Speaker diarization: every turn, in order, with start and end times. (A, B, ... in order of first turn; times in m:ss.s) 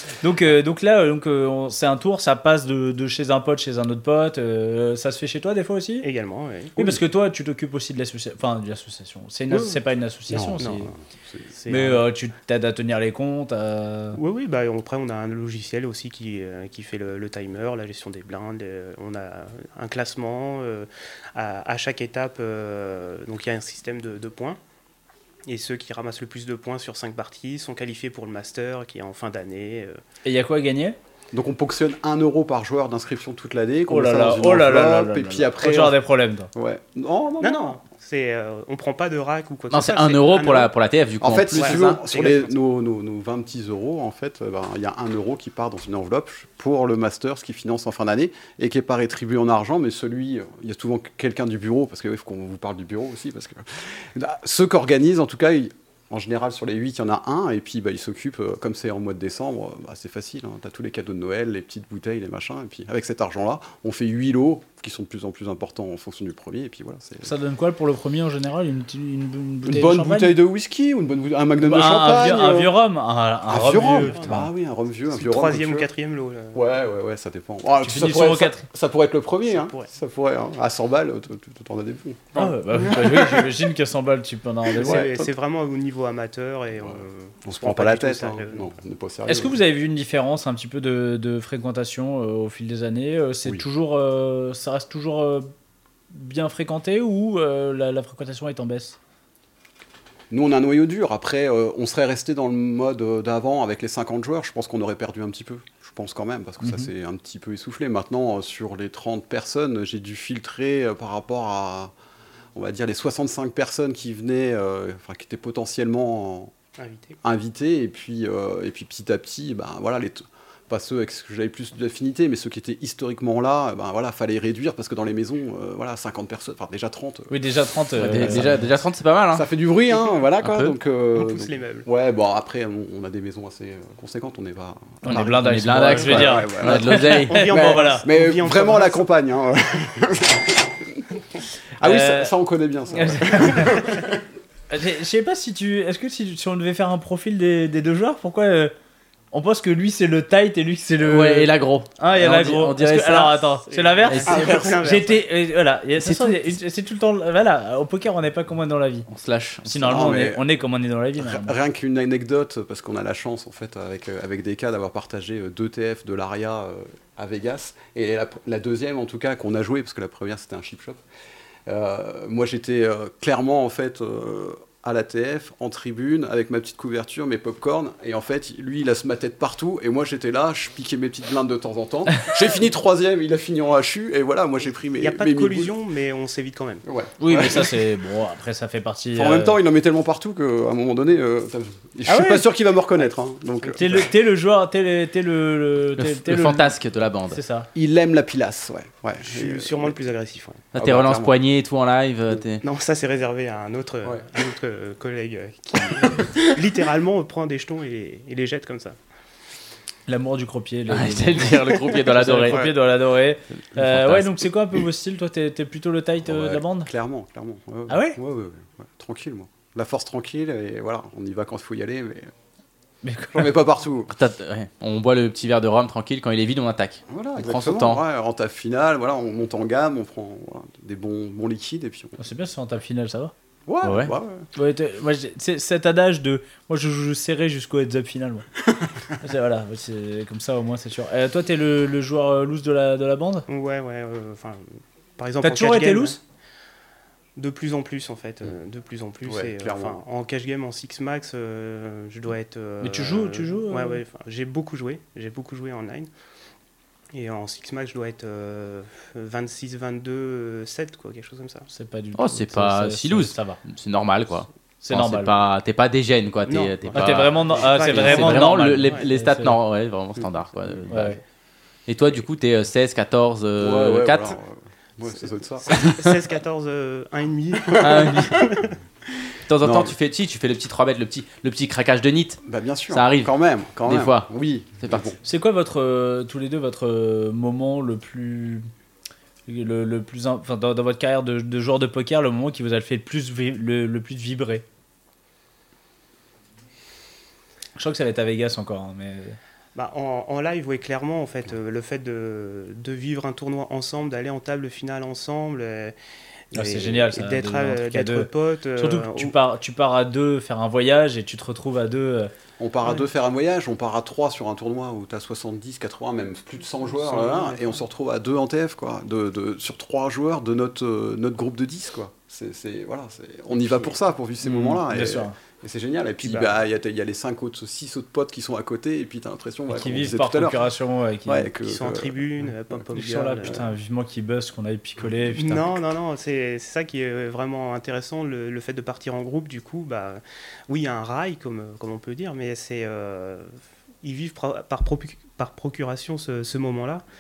0:00.2-0:06.1 A
0:06.0-0:06.9 B
0:06.8-0:10.9 A
0:09.5-0:09.8 B
0:10.3-0:11.5 C
0:10.6-0:10.9 B
0:11.6-0:12.0 B
0:11.7-0:14.2 A
0:14.2-0:24.6 B
0:25.5-0:30.0 B
0:30.2-0:31.0 A
0:31.3-0:36.0 C
0:33.9-0:36.5 A
0:36.5-0:37.8 C
0:37.4-0:40.7 B
0:39.7-0:42.0 D
0:41.2-1:07.3 C
0:41.6-0:42.5 B
1:07.2-1:10.4 A
1:09.6-1:12.8 C
1:11.6-1:14.5 A
1:13.5-1:15.9 C
1:13.8-1:14.4 B
1:15.1-1:16.6 B
1:16.5-1:23.5 C
1:17.8-1:18.6 A
1:19.5-1:19.9 B
1:22.4-1:25.1 A
1:24.8-1:28.7 B
1:24.8-1:25.3 C
1:26.8-1:29.6 C
1:29.3-1:35.5 A
1:36.1-1:39.0 A
1:40.3-1:51.9 C
1:46.6-1:46.9 A
1:52.6-1:56.5 C
1:56.8-1:57.2 B
1:57.2-2:07.4 C
2:07.3-2:08.7 A
2:08.0-2:09.5 D
2:08.0-2:08.7 C
2:09.3-2:21.0 C
2:10.4-2:10.7 D
2:11.1-2:11.9 B
2:15.0-2:18.1 A
2:15.1-2:17.5 D
2:17.2-2:19.0 B
2:21.8-2:24.2 C
2:21.8-2:22.3 A
2:22.9-2:23.9 A
2:24.7-2:28.7 A
2:29.3-2:39.1 A
2:31.0-2:33.5 D
2:33.7-2:35.2 B
2:34.1-2:34.6 D
2:34.3-2:34.8 C
2:39.1-2:40.0 D
2:39.6-2:41.6 A
2:39.8-2:40.4 C
2:41.2-2:51.0 C
2:51.7-3:05.7 C
3:05.0-3:06.8 B
3:06.8-3:07.7 C
3:07.2-3:09.6 A
3:09.1-3:14.1 C
3:12.1-3:12.5 A
3:13.6-3:14.0 B
3:13.8-3:16.8 A
3:16.0-3:17.4 D
3:17.3-3:17.7 A
3:17.8-3:20.0 C
3:19.2-3:20.7 B
3:20.7-3:22.6 D
3:20.8-3:21.4 C
3:22.6-3:29.0 B
3:30.1-3:36.9 A
3:30.9-3:32.7 D
3:32.5-3:32.8 C
3:33.8-3:34.3 D
3:36.2-3:42.3 C
3:37.9-3:38.2 A
3:43.0-3:43.5 A
3:43.3-3:44.1 C
3:44.1-3:48.0 D
3:47.1-3:52.2 C
3:52.2-3:53.3 A
3:53.7-3:54.5 C
3:53.8-3:54.1 D
3:54.6-3:58.5 A
3:59.2-4:03.5 A
4:03.5-4:06.2 B
4:05.4-4:06.2 A
4:07.4-4:16.1 B
4:09.2-4:10.0 C
4:12.8-4:14.0 A
4:17.1-4:21.7 B
4:21.7-4:23.6 A
4:22.2-4:31.2 D
4:24.8-4:25.3 A
4:26.5-4:29.1 B
4:27.0-4:29.6 A
4:30.9-4:31.2 A
4:31.9-4:34.4 D
4:33.6-4:35.9 C
4:35.6-4:38.7 B
4:35.8-4:36.0 D
4:37.7-4:38.5 C
4:37.8-4:38.5 D
4:39.5-4:44.3 D
4:39.6-4:40.0 C
4:42.4-4:45.2 C
4:44.8-4:45.1 D
4:45.2-4:48.7 A
4:49.5-4:54.6 A
4:57.8-4:59.4 A
4:59.8-5:06.0 B
5:06.5-5:09.4 B
5:06.5-5:12.3 A
5:12.6-5:30.6 C
5:16.8-5:17.8 B
5:24.4-5:25.4 A
5:26.3-5:26.5 B
5:29.7-5:31.5 A
5:31.3-5:32.2 C
5:31.6-5:33.6 B
5:32.9-5:35.8 A
5:35.3-5:47.0 B